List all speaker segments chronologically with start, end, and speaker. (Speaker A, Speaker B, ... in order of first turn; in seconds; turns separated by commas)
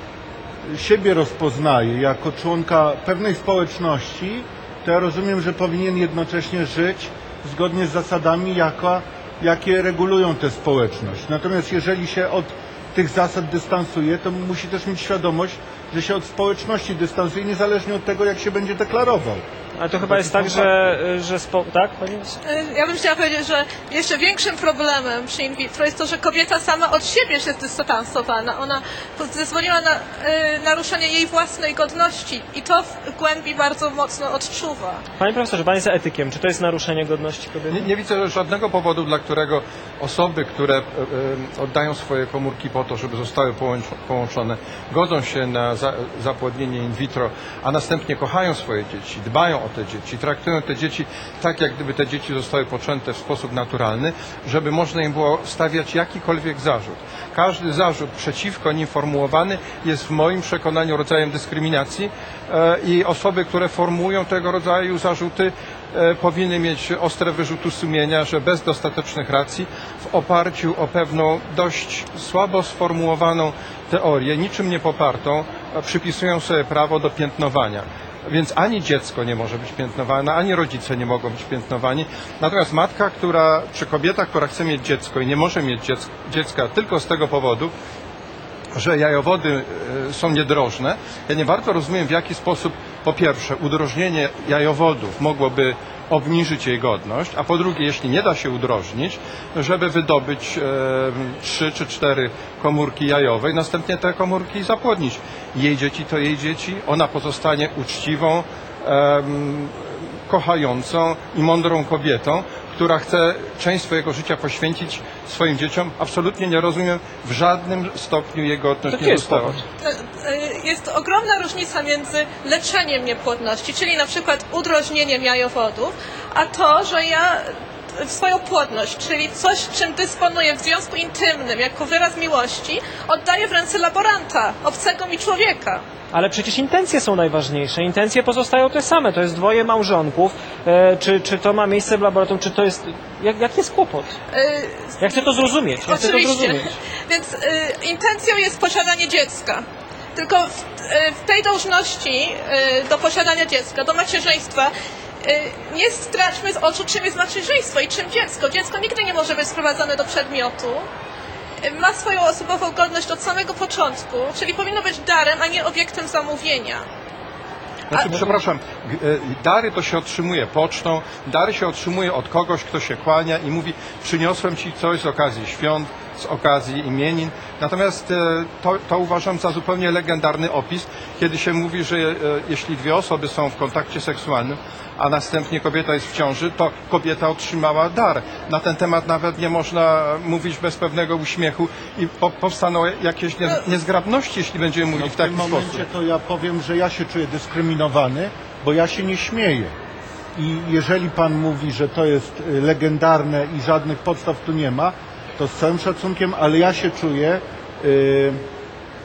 Speaker A: 0.6-19.4, Speaker B: 19.8-22.4, Speaker A: 20.0-20.7, Speaker C: 22.4-35.0, Speaker B: 35.2-37.9, Speaker D: 37.7-87.7, Speaker D: 88.7-119.6, Speaker B: 118.9-119.6, Speaker C: 119.8-135.8, Speaker B: 136.1-144.2, Speaker C: 144.3-154.7, Speaker B: 145.0-146.8, Speaker C: 155.2-160.9, Speaker C: 161.6-166.8, Speaker D: 167.9-195.9, Speaker C: 167.9-168.2, Speaker A: 194.9-199.7, Speaker A: 200.4-208.4